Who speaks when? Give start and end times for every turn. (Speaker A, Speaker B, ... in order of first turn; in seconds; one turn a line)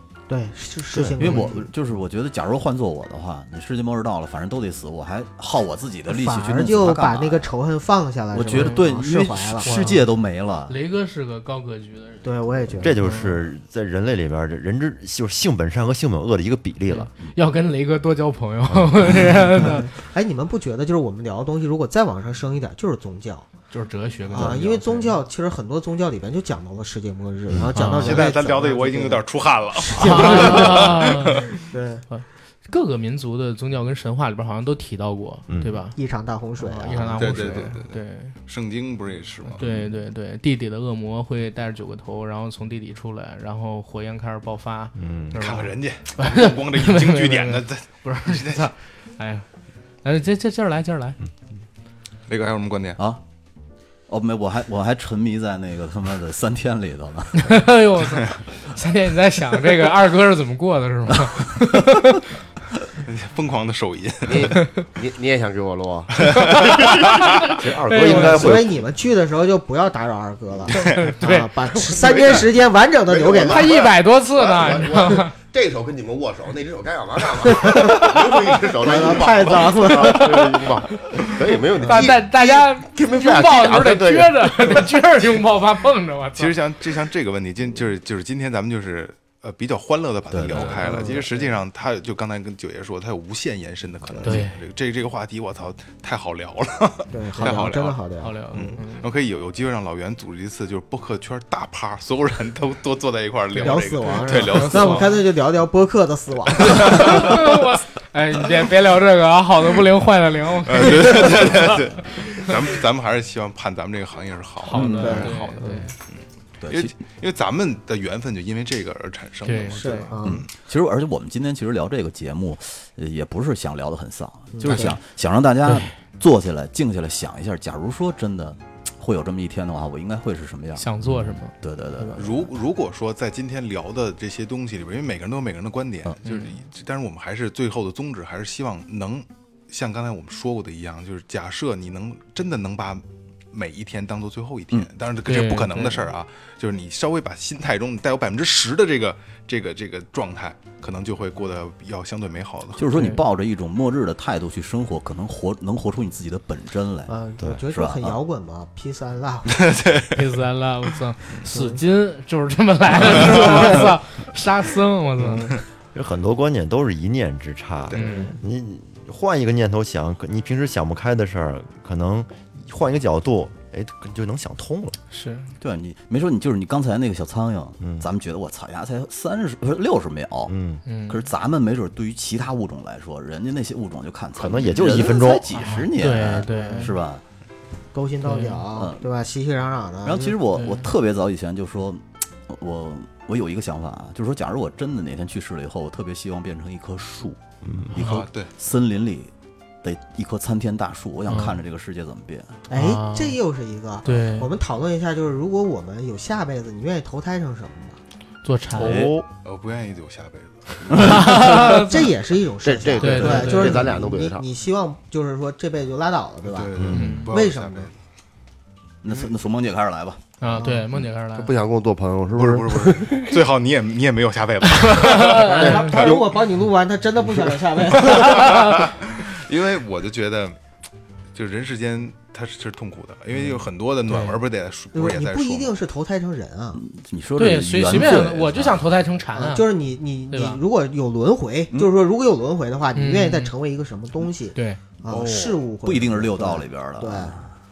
Speaker A: 0.3-1.6
Speaker B: 0.9-7.5
Speaker C: 1.2-1.5
Speaker A: 6.1-10.0
Speaker B: 8.3-10.8
Speaker C: 8.5-8.8
Speaker C: 9.6-10.0
Speaker C: 10.7-12.4
Speaker A: 12.2-13.0
Speaker D: 12.8-17.1
Speaker C: 13.0-13.4
Speaker C: 16.9-19.9
Speaker D: 18.7-19.1
Speaker A: 19.6-23.5
Speaker C: 23.7-25.2
Speaker A: 24.3-29.2
Speaker C: 27.7-28.3
Speaker E: 27.9-31.4
Speaker A: 29.8-32.0
Speaker C: 30.0-31.5
Speaker C: 32.1-36.0
Speaker D: 35.5-35.8
Speaker A: 36.0-37.7
Speaker C: 36.6-38.3
Speaker E: 37.2-39.6
Speaker C: 39.5-49.5
Speaker D: 45.0-45.4
Speaker E: 45.4-48.7
Speaker C: 50.0-51.2
Speaker E: 52.3-53.0
Speaker B: 54.1-57.6
Speaker C: 57.4-62.2
Speaker E: 63.0-64.5
Speaker F: 64.3-66.4
Speaker E: 66.3-67.0
Speaker C: 66.4-68.5
Speaker D: 67.6-68.8
Speaker A: 67.9-73.7
Speaker C: 70.8-71.5
Speaker F: 72.0-72.4
Speaker F: 73.1-84.9
Speaker C: 73.4-75.3
Speaker A: 77.5-78.1
Speaker A: 78.8-80.5
Speaker C: 79.9-86.5
Speaker E: 86.4-98.0
Speaker B: 90.3-90.8
Speaker C: 90.5-91.5
Speaker A: 90.8-91.3
Speaker C: 94.2-94.6
Speaker A: 97.1-98.8
Speaker C: 97.4-97.7
Speaker C: 98.2-99.1
Speaker E: 98.5-105.1
Speaker C: 103.5-105.2
Speaker A: 103.6-107.5
Speaker E: 106.7-107.1
Speaker C: 106.7-112.5
Speaker E: 110.7-120.4
Speaker C: 114.6-115.9
Speaker B: 114.7-115.5
Speaker A: 115.0-115.8
Speaker B: 116.6-116.9
Speaker C: 119.5-120.1
Speaker A: 119.8-120.5
Speaker B: 120.2-132.5
Speaker A: 124.5-125.0
Speaker C: 125.6-125.9
Speaker C: 130.8-132.2
Speaker E: 132.2-152.9
Speaker C: 136.2-136.5
Speaker C: 145.3-146.0
Speaker B: 152.8-158.2
Speaker C: 152.9-153.2
Speaker A: 157.1-159.8
Speaker E: 159.6-160.1
Speaker C: 160.1-165.6
Speaker A: 161.5-161.8
Speaker A: 163.2-163.8
Speaker A: 165.2-165.5
Speaker D: 165.9-175.0
Speaker C: 167.9-168.3
Speaker A: 167.9-168.3
Speaker C: 175.1-175.5
Speaker B: 175.6-180.6
Speaker D: 177.8-178.1
Speaker D: 180.5-180.8
Speaker C: 180.9-181.2
Speaker B: 181.1-187.2
Speaker D: 184.3-185.5
Speaker C: 185.5-186.9
Speaker A: 186.5-186.9
Speaker A: 187.9-190.4
Speaker C: 188.2-188.6
Speaker B: 188.7-189.1
Speaker B: 190.0-199.3
Speaker C: 190.5-190.9
Speaker D: 197.6-197.9
Speaker E: 198.0-198.5
Speaker B: 199.8-202.6
Speaker C: 201.3-201.6
Speaker A: 202.7-208.0
Speaker C: 202.7-203.4
Speaker C: 204.0-204.5
Speaker C: 208.4-209.1
Speaker B: 208.8-209.1
Speaker D: 208.8-209.2
Speaker F: 208.9-209.2
Speaker E: 209.4-210.9
Speaker B: 210.9-211.4
Speaker C: 210.9-212.1
Speaker A: 211.2-217.9
Speaker F: 212.6-214.4
Speaker C: 213.0-213.9
Speaker E: 216.4-217.9
Speaker D: 216.8-217.2
Speaker C: 216.9-217.3
Speaker B: 219.0-220.2
Speaker C: 220.4-221.5
Speaker A: 220.5-220.9
Speaker F: 221.4-223.2
Speaker E: 222.4-226.2
Speaker C: 224.9-226.1
Speaker A: 225.3-228.9
Speaker F: 225.6-226.2
Speaker E: 228.1-230.6
Speaker C: 228.2-228.7
Speaker E: 231.3-235.8
Speaker C: 234.1-234.4
Speaker A: 234.9-236.8
Speaker B: 236.7-238.9
Speaker C: 237.4-239.6
Speaker A: 239.3-247.4
Speaker C: 240.3-240.6
Speaker C: 242.9-243.5
Speaker C: 244.6-244.8
Speaker B: 245.1-247.5